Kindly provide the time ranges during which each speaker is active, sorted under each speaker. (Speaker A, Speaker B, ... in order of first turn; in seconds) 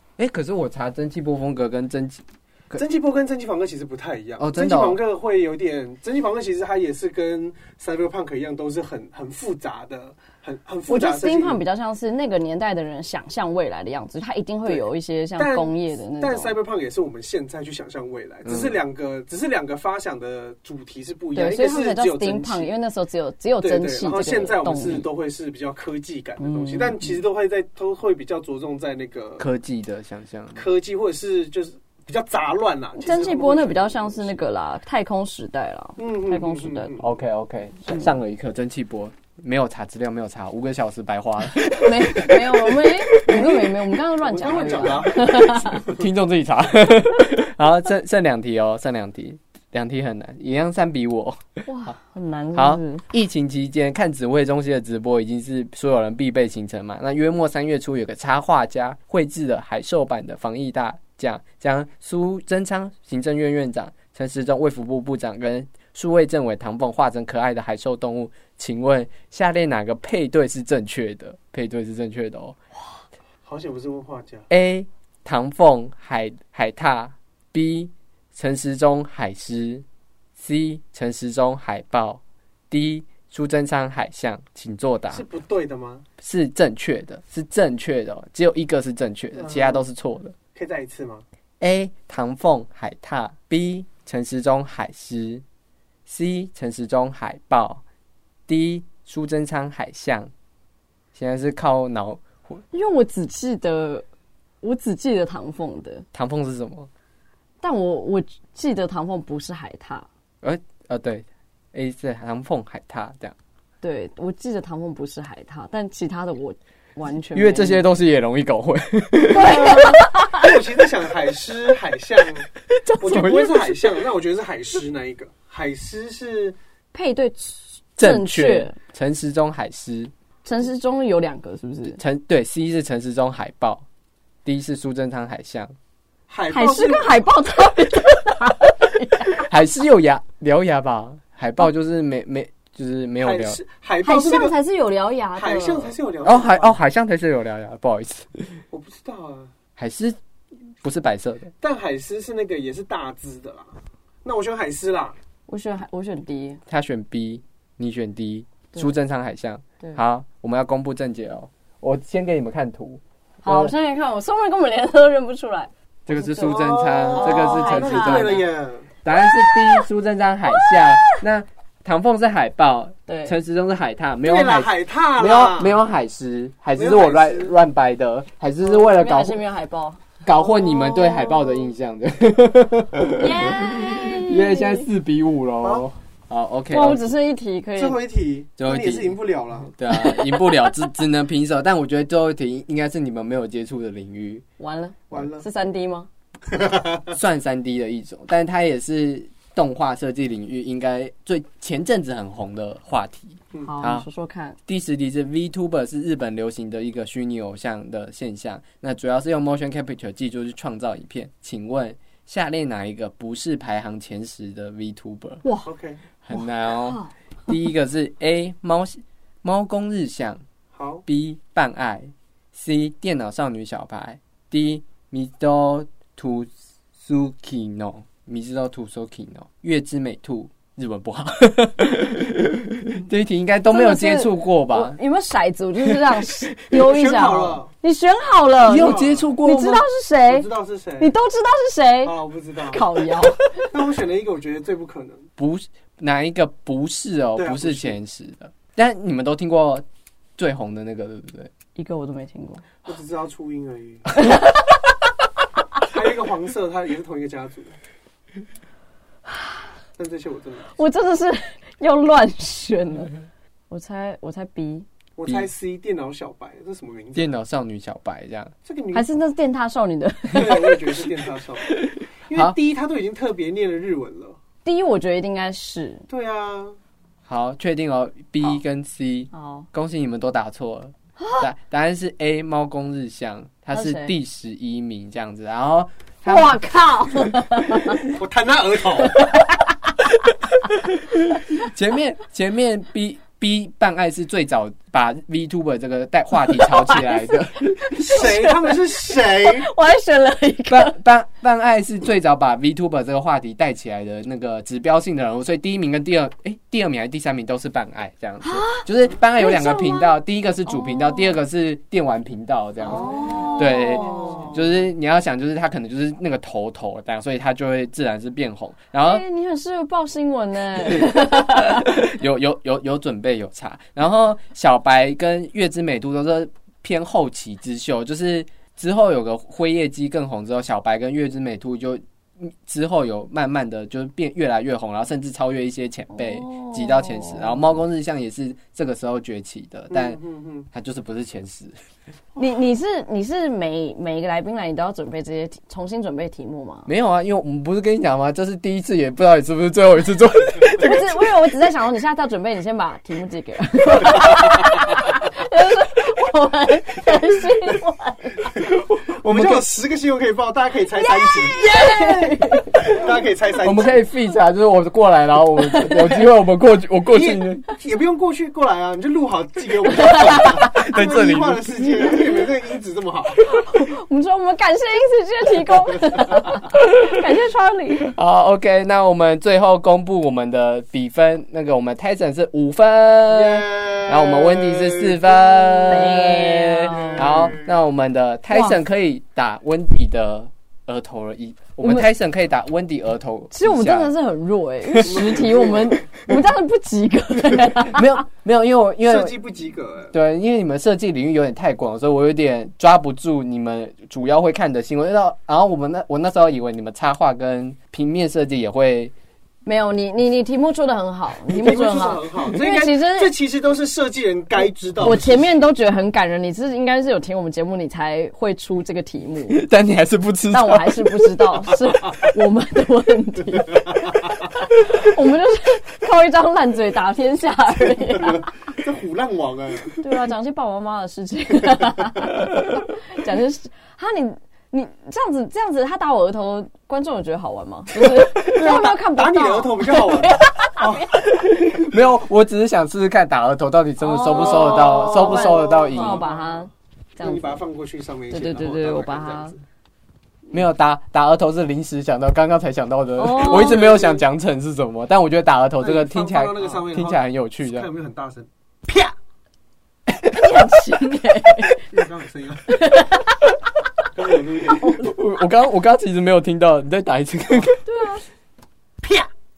Speaker A: 0.2-2.8, 4.4-5.0, 18.4-18.8, 29.4-30.6, 37.0-43.4, 45.6-51.4, 52.5-72.6, 74.5-79.8, 80.4-85.2, 86.2-90.3, 91.6-95.4, 96.0-97.8, 98.5-100.3, 101.1-102.6, 106.1-106.9, 110.4-113.3, 117.3-120.3, 122.7-124.0, 128.0-130.1, 131.9-133.8, 134.4-135.7, 139.3-143.6, 146.2-148.6, 149.8-150.2, 150.8-151.5, 156.7-163.7, 166.1-168.4, 169.0-179.4, 180.2-187.0, 188.6-189.2, 189.7-194.4, 197.1-204.1, 204.7-215.4, 216.2-220.4, 221.1-235.0, 238.6-239.8, 245.4-249.8, 250.4-251.5, 267.1-268.5, 271.8-272.5, 277.3-286.5, 290.6-298.3, 300.7-319.2, 320.8-340.2, 340.7-341.8, 346.9-351.3, 358.6-359.7, 363.6-367.6, 370.7-372.1, 376.7-377.2, 378.1-394.1, 394.9-395.3, 397.9-399.4, 400.1-409.1, 419.5-421.7, 441.2-446.2, 450.5-457.9, 460.2-460.6, 465.0-467.8
Speaker B: 2.7-11.6, 15.4-22.7, 23.6-29.5, 30.5-34.4, 36.0-37.1, 43.1-46.0, 73.4-74.5, 85.1-86.0, 89.4-89.8, 90.5-91.2, 119.3-126.6, 136.3-137.3, 143.2-144.5, 145.4-146.8, 148.7-149.5, 151.6-155.2, 166.4-168.9, 174.2-175.8, 176.7-177.6, 185.6-185.9, 187.8-189.7, 195.1-195.4, 196.5-197.1, 215.6-216.0, 220.7-221.0, 236.7-237.7, 238.7-239.3, 240.2-241.1, 242.0-242.9, 243.6-245.3, 247.4-248.0, 252.9-254.1, 255.8-257.8, 260.0-260.7, 265.2-267.3, 268.6-269.1, 270.3-274.4, 276.1-276.8, 288.0-289.3, 298.0-299.7, 312.9-314.6, 339.9-340.7, 359.2-364.0, 367.1-373.5, 383.3-385.9, 386.9-387.5, 395.0-396.1, 399.0-400.1, 411.5-415.5, 428.2-430.0, 438.2-441.9, 444.3-446.6, 447.2-449.6, 453.4-454.2, 455.8-459.1, 461.8-462.7, 464.1-465.0
Speaker C: 10.9-16.6, 21.4-25.1, 26.4-27.2, 33.0-37.0, 41.6-45.8, 51.6-53.0, 102.7-104.0, 104.6-106.0, 107.6-110.1, 113.8-117.8, 119.3-120.5, 126.9-128.8, 130.4-132.0, 136.5-139.4, 144.0-145.9, 155.5-156.6, 163.4-168.4, 169.4-169.8, 170.6-171.2, 173.1-173.4, 178.6-180.0, 183.1-184.9, 186.7-188.0, 189.9-190.8, 194.6-196.1, 203.6-204.6, 216.7-217.1, 233.7-240.5, 241.0-242.1, 242.7-243.7, 251.8-252.6, 254.2-254.5, 260.7-263.1, 263.7-264.9, 268.9-270.9, 274.6-276.0, 279.3-279.7, 281.2-281.4, 283.7-284.1, 286.2-288.0, 289.1-289.6, 296.6-297.2, 297.7-301.0, 308.4-311.4, 312.9-314.6, 319.0-321.9, 336.1-337.6, 342.4-346.9, 350.8-358.5, 360.9-362.9, 365.6-366.2, 370.0-370.7, 373.5-378.1, 385.9-387.5, 388.5-388.8, 391.8-392.1, 393.5-398.2, 409.6-413.4, 415.0-419.6, 420.5-428.5, 430.0-441.2, 444.0-447.6, 448.3-449.5, 453.2-453.9, 460.3-461.8, 462.7-463.4, 464.8-465.1, 467.8-468.2